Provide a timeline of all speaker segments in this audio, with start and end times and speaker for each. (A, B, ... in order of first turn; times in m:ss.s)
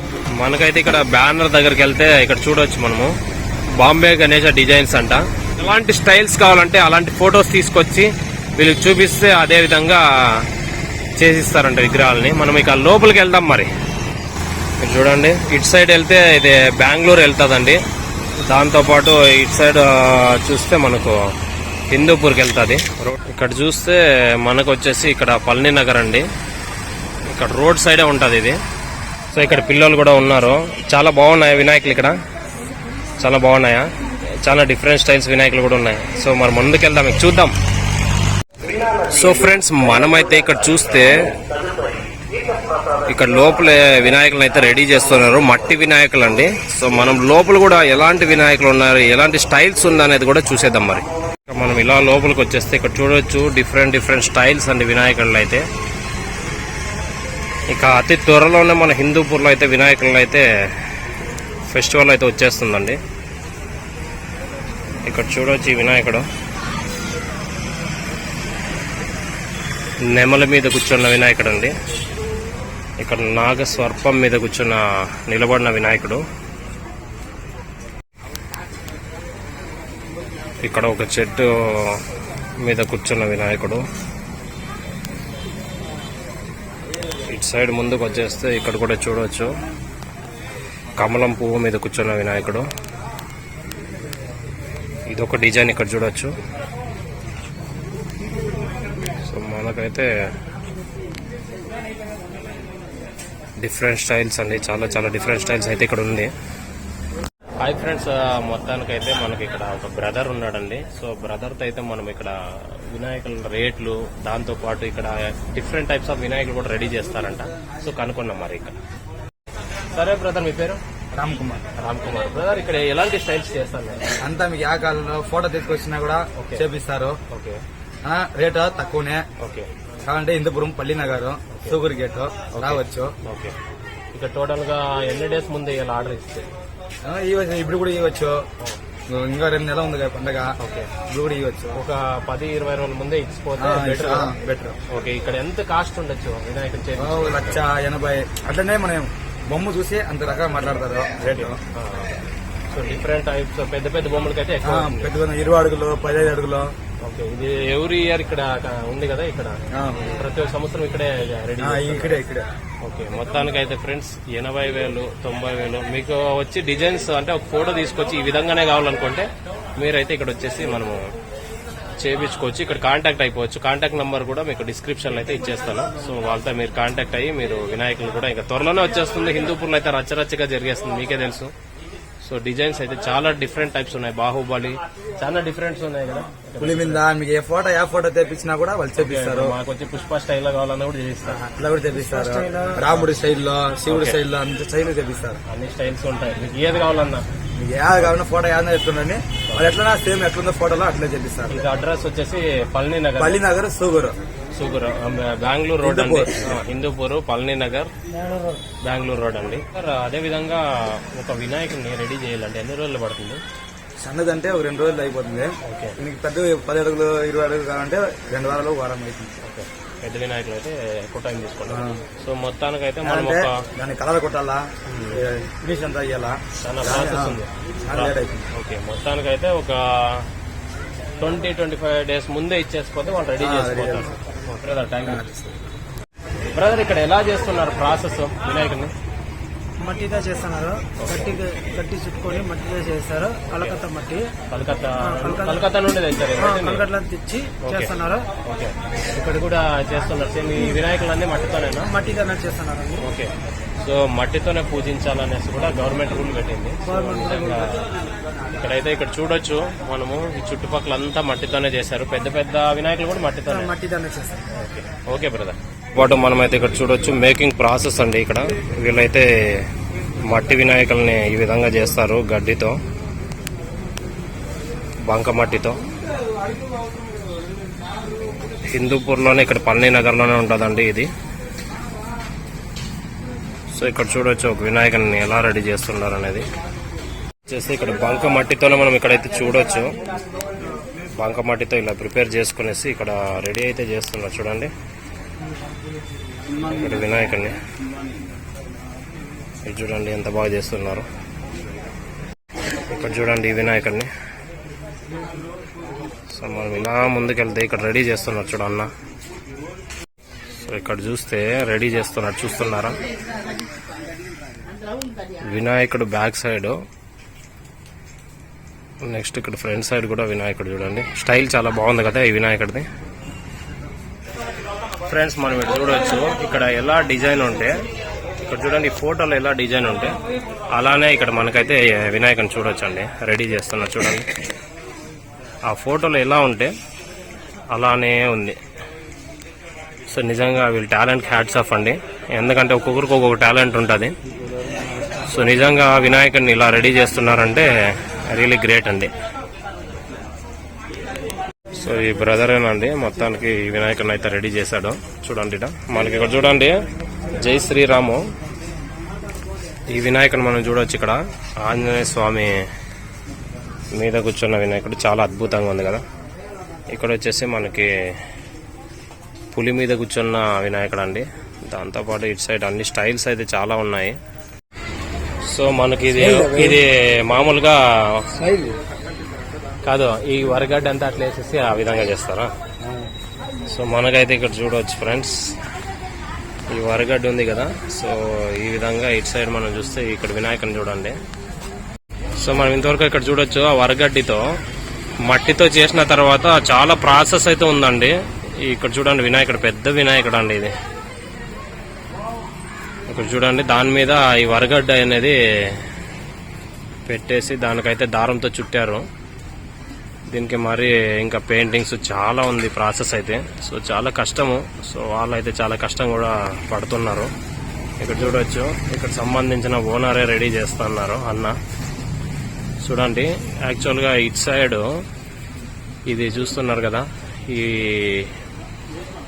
0:00.3-0:03.1 A
0:03.8-0:10.5 A
0:11.2-0:13.7 A
0:14.8-0:17.8 A
0:18.5-0:21.2 A
0:21.9-0:26.2 A
0:27.3-0:28.6 A
0:29.3-0:32.1 A
0:33.2-0:33.9 A
0:34.4-0:37.5 A
0:38.6-0:41.8 A
0:42.4-0:55.6 A
0:57.7-1:00.4 A
1:01.7-1:03.0 A
1:05.1-1:06.2 A
1:10.1-1:11.7 A
1:13.0-1:16.2 A
1:20.6-1:22.0 A
1:22.6-1:23.8 A
1:27.3-1:29.5 A
1:31.0-1:32.6 A
1:35.1-1:36.3 A
1:39.2-1:40.1 A
1:43.6-1:46.3 A
1:47.6-1:52.3 A
1:52.9-1:58.7 A
1:59.9-2:00.8 A
2:01.1-2:01.6 B
2:01.8-2:04.1 A
2:04.2-2:07.2 B
2:06.4-2:06.6 A
2:07.3-2:07.6 A
2:08.0-2:09.2 B
2:09.4-2:09.7 A
2:10.0-2:13.1 B
2:12.5-2:13.6 A
2:14.1-2:16.4 A
2:17.0-2:18.4 B
2:19.1-2:20.5 B
2:20.6-2:20.9 A
2:21.1-2:21.8 B
2:21.7-2:24.3 A
2:23.6-2:24.8 B
2:24.9-2:27.6 A
2:27.0-2:31.6 B
2:31.2-2:32.1 A
2:32.7-2:35.1 A
2:34.6-2:36.7 B
2:37.0-2:42.2 A
2:39.7-2:40.1 B
2:41.6-2:42.4 B
2:42.8-2:51.0 A
2:52.0-3:01.5 A
3:02.2-3:07.0 A
3:06.6-3:09.5 B
3:09.0-3:11.4 A
3:11.4-3:15.4 B
3:12.0-3:12.8 C
3:13.9-3:14.2 A
3:15.5-3:17.2 A
3:17.6-3:21.7 B
3:19.5-3:19.8 A
3:21.5-3:23.4 A
3:23.2-3:24.2 B
3:24.5-3:27.9 A
3:25.8-3:26.6 B
3:28.3-3:28.6 C
3:28.8-3:33.4 A
3:34.0-3:39.4 B
3:35.6-3:36.0 A
3:39.4-3:43.6 A
3:41.7-3:42.0 B
3:43.0-3:48.5 B
3:44.9-3:45.2 A
3:46.6-3:50.2 A
3:51.2-3:55.3 A
3:53.4-3:54.1 B
3:55.0-3:55.6 B
3:56.5-3:58.9 A
3:59.8-4:04.3 C
4:01.0-4:01.4 A
4:04.5-4:06.9 A
4:05.0-4:05.6 C
4:06.4-4:08.3 C
4:07.6-4:12.0 A
4:11.9-4:13.0 C
4:13.0-4:17.9 A
4:16.8-4:17.6 C
4:18.6-4:23.7 A
4:23.5-4:24.4 C
4:24.5-4:29.3 A
4:30.3-4:32.8 A
4:35.1-4:35.8 A
4:38.7-4:41.1 A
4:43.7-4:46.4 A
4:47.5-4:49.9 A
4:51.2-4:54.7 A
4:56.6-4:57.6 A
4:59.6-5:01.1 A
5:02.9-5:04.1 A
5:06.3-5:08.9 A
5:10.6-5:13.0 A
5:15.5-5:16.8 A
5:19.0-5:22.8 A
5:25.1-5:27.7 A
5:28.4-5:30.1 A
5:30.7-5:34.3 A
5:35.7-5:36.7 A
5:37.7-5:38.6 A
5:40.1-5:44.1 A
5:45.3-5:49.1 A
5:51.8-5:56.7 A
5:57.4-5:58.2 A
5:59.9-6:02.5 A
6:03.9-6:06.0 A
6:06.9-6:07.9 A
6:09.5-6:14.2 A
6:15.5-6:18.3 A
6:18.4-6:18.7 B
6:19.8-6:22.5 A
6:23.7-6:25.4 A
6:26.7-6:31.2 A
6:32.4-6:34.4 A
6:35.3-6:40.7 A
6:43.1-6:45.8 A
6:47.0-6:49.0 A
6:50.3-6:57.3 A
6:58.0-7:01.5 A
7:02.8-7:04.8 A
7:06.1-7:08.3 A